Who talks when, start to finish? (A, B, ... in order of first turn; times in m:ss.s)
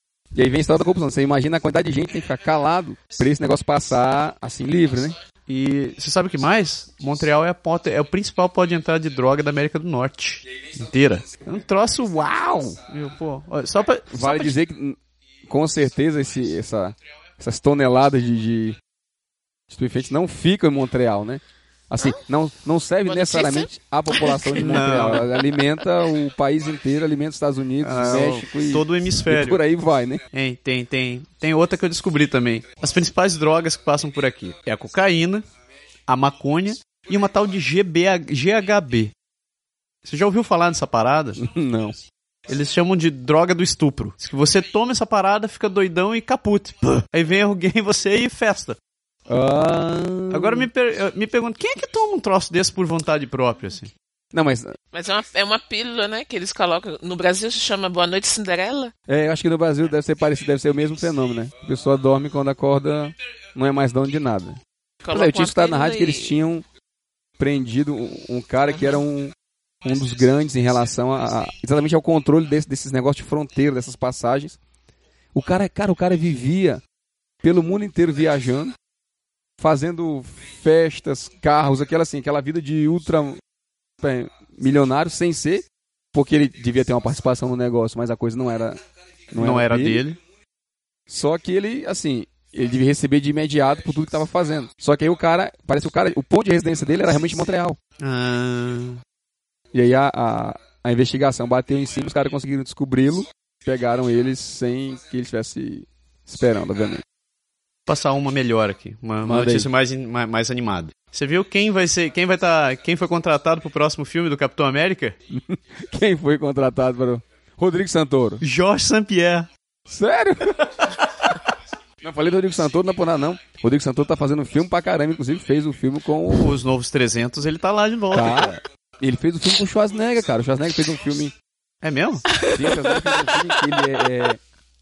0:00.3-0:05.2 A
0:05.5-0:14.5 B
0:14.1-0:18.8 A
0:19.7-0:30.2 A
0:23.1-0:25.6 C
0:24.6-0:25.3 B
0:27.8-0:29.6 B
0:30.3-0:35.4 B
0:36.1-0:39.1 B
0:40.0-0:41.4 B
0:41.4-0:42.0 A
0:42.5-0:48.8 B
0:49.3-0:50.7 A
0:50.3-0:53.9 B
0:54.3-0:54.7 A
0:54.9-0:58.9 C
0:59.1-1:04.6 A
1:05.0-1:06.3 C
1:05.1-1:06.6 A
1:07.4-1:14.6 A
1:15.3-1:16.8 A
1:17.4-1:18.8 A
1:19.6-1:23.4 A
1:24.0-1:28.8 A
1:29.3-1:30.0 A
1:29.4-1:30.2 B
1:31.1-1:37.8 A
1:38.0-1:39.0 B
1:39.7-1:47.0 A
1:47.9-1:55.2 B
1:49.2-1:49.7 A
1:55.3-1:58.4 A
1:58.4-1:59.5 B
1:59.9-2:00.9 A
2:02.0-2:06.5 A
2:06.3-2:08.6 B
2:08.1-2:11.3 A
2:11.8-2:12.3 B
2:12.4-2:13.8 C
2:12.5-2:14.4 A